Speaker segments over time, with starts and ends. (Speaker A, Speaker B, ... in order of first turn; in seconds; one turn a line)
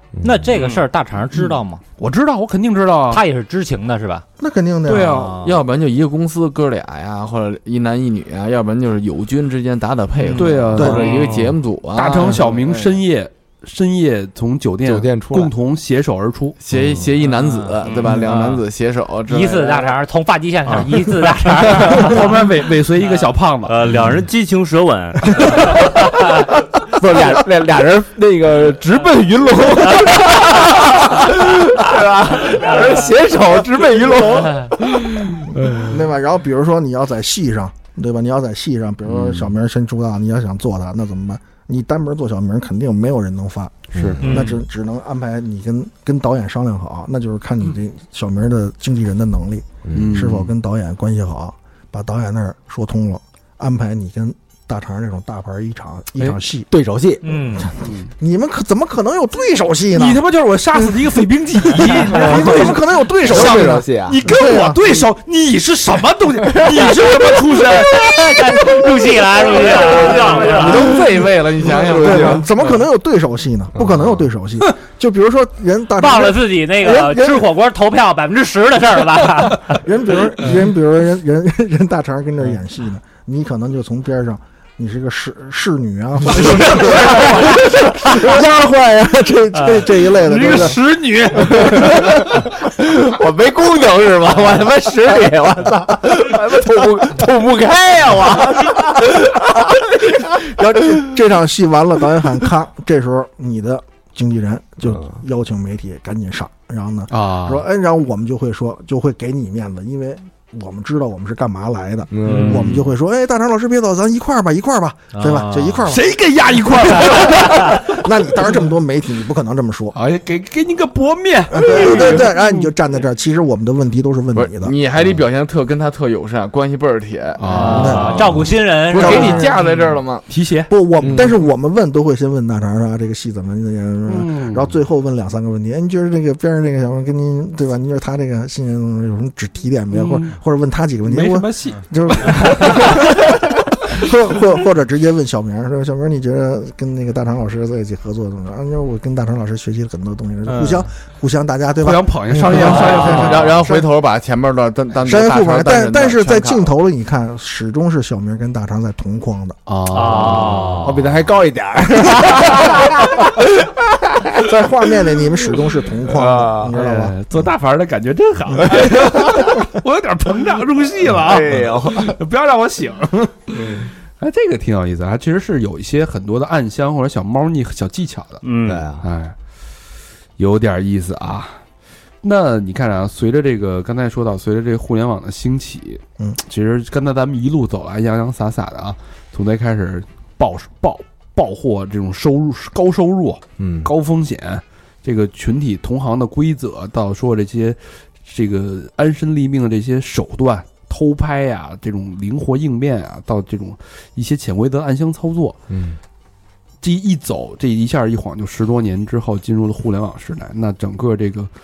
Speaker A: 0.2-0.5
Speaker B: 0.2-1.8
Speaker C: 0.6-0.8
Speaker C: 1.3-3.2
Speaker B: 3.1-4.2
Speaker D: 4.4-5.2
Speaker C: 4.8-5.4
Speaker B: 5.0-5.6
Speaker E: 5.4-13.0
Speaker C: 10.3-16.6
Speaker D: 10.8-11.0
Speaker A: 14.8-15.5
Speaker E: 16.6-19.9
Speaker B: 17.2-18.6
Speaker B: 19.3-22.3
Speaker C: 21.8-23.9
Speaker F: 23.6-25.9
Speaker A: 25.6-35.8
Speaker D: 35.6-56.7
Speaker C: 39.1-39.5
Speaker A: 43.9-44.4
Speaker C: 43.9-44.4
Speaker B: 44.2-44.6
Speaker A: 49.9-50.2
Speaker C: 49.9-50.5
Speaker A: 56.7-57.3
Speaker B: 57.2-57.7
Speaker D: 57.3-60.2
Speaker C: 57.8-58.1
Speaker C: 59.9-68.8
Speaker D: 60.7-64.8
Speaker A: 61.9-64.2
Speaker A: 66.5-67.2
Speaker B: 67.8-71.0
Speaker E: 69.4-72.5
Speaker D: 71.9-77.5
Speaker A: 73.8-74.1
Speaker B: 76.0-79.8
Speaker D: 79.7-90.8
Speaker C: 90.2-91.5
Speaker B: 90.4-91.8
Speaker A: 91.4-100.1
Speaker D: 100.2-120.0
Speaker A: 104.8-105.1
Speaker C: 107.1-107.6
Speaker A: 112.1-112.8
Speaker C: 112.2-112.8
Speaker B: 115.1-115.8
Speaker C: 115.8-118.0
Speaker C: 119.9-122.7
Speaker D: 121.5-124.7
Speaker E: 124.3-130.3
Speaker C: 127.4-128.5
Speaker B: 127.5-129.5
Speaker D: 127.7-128.3
Speaker D: 128.9-129.6
Speaker C: 129.1-131.2
Speaker D: 130.7-153.9
Speaker A: 131.0-131.3
Speaker C: 134.1-134.7
Speaker C: 139.9-140.3
Speaker C: 141.0-143.1
Speaker B: 150.5-150.8
Speaker C: 151.8-153.7
Speaker E: 152.6-156.7
Speaker D: 155.0-159.6
Speaker C: 159.7-161.1
Speaker B: 159.9-161.0
Speaker A: 160.8-164.4
Speaker D: 164.4-167.3
Speaker A: 166.1-166.7
Speaker C: 166.7-178.4
Speaker A: 168.6-169.6
Speaker A: 171.0-172.2
Speaker A: 173.5-173.9
Speaker F: 178.4-178.8
Speaker A: 178.7-179.1
Speaker C: 179.0-179.3
Speaker C: 180.4-181.6
Speaker C: 182.2-205.6
Speaker A: 193.6-193.9
Speaker A: 205.7-206.0
Speaker C: 206.8-211.5